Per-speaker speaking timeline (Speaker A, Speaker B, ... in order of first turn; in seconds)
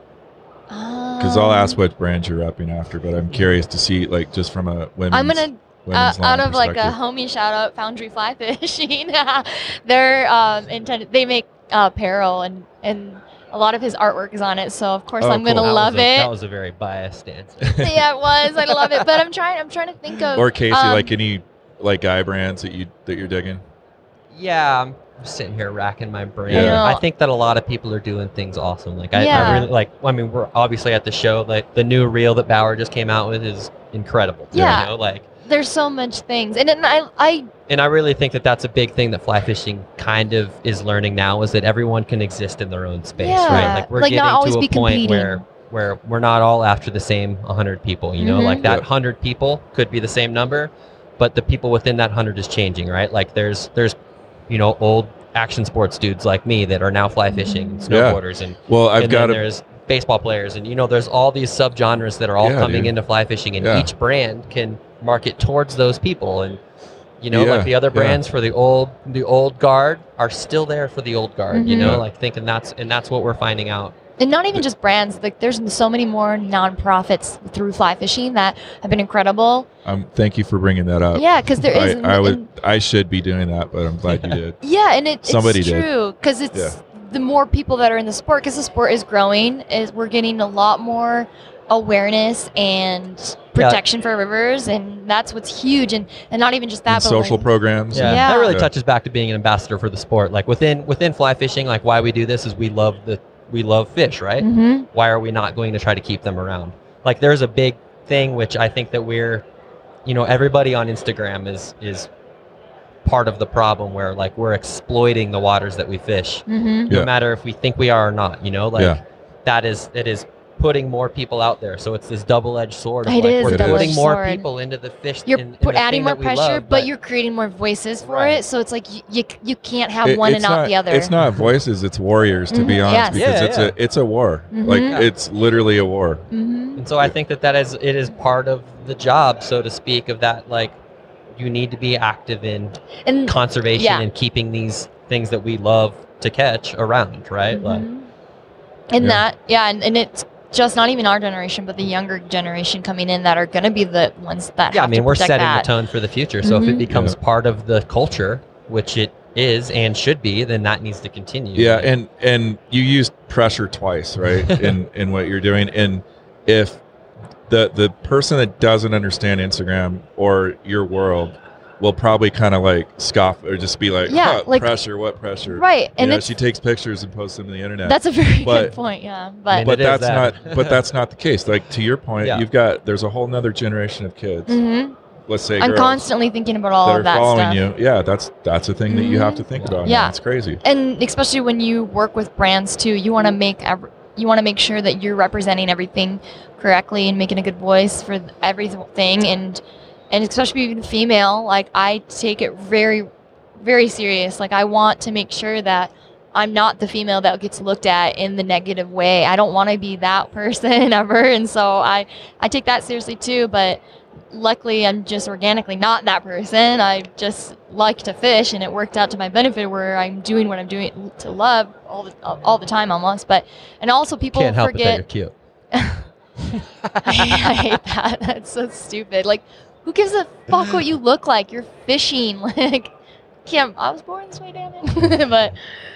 Speaker A: 0.7-1.8, 5.1-16.3, 17.8-21.1, 26.5-27.0, 29.1-29.7, 34.5-34.9, 35.4-37.5, 43.2-45.4, 48.2-48.7, 57.3-57.8, 71.5-72.0, 74.2-79.7, 81.1-82.5, 84.6-98.6, 104.4-104.9, 116.5-116.9, 123.0-124.5, 125.3-131.1, 132.5-133.2, 134.5-135.0, 136.3-136.8, 143.1-144.1, 147.5-148.1, 148.9-155.7, 156.4-156.8, 174.1-174.7, 175.4-176.3, 177.8-179.7, 184.5-185.0, 185.6-187.6, 188.9-213.8, 214.3-225.0, 225.7-226.1, 227.0-232.9, 233.4-235.7
Speaker B: 1.2-6.9, 15.2-15.7, 20.4-23.6, 26.5-26.8, 29.3-29.6, 34.5-34.8, 43.5-43.7, 57.9-59.4, 62.4-62.9, 63.6-63.9, 67.3-68.2, 71.7-72.0, 79.8-84.6, 85.2-85.9, 96.9-98.7, 118.7-119.0, 123.4-124.0, 130.0-136.2, 156.8-157.2, 161.5-166.8, 167.5-178.7, 179.6-184.6, 185.3-186.0, 186.8-190.6
Speaker C: 15.6-19.2, 24.3-35.2, 37.7-53.9, 54.5-66.6, 67.2-73.9, 84.1-84.4, 93.5-93.8, 97.9-109.4, 110.0-112.1, 113.0-126.9, 128.0-128.4, 131.2-131.4, 133.1-133.8, 134.8-135.1, 136.8-140.8, 141.3-147.8, 154.7-161.9, 164.4-164.8, 179.5-180.9, 182.2-182.4, 189.6-189.8, 224.3-225.3, 226.5-227.8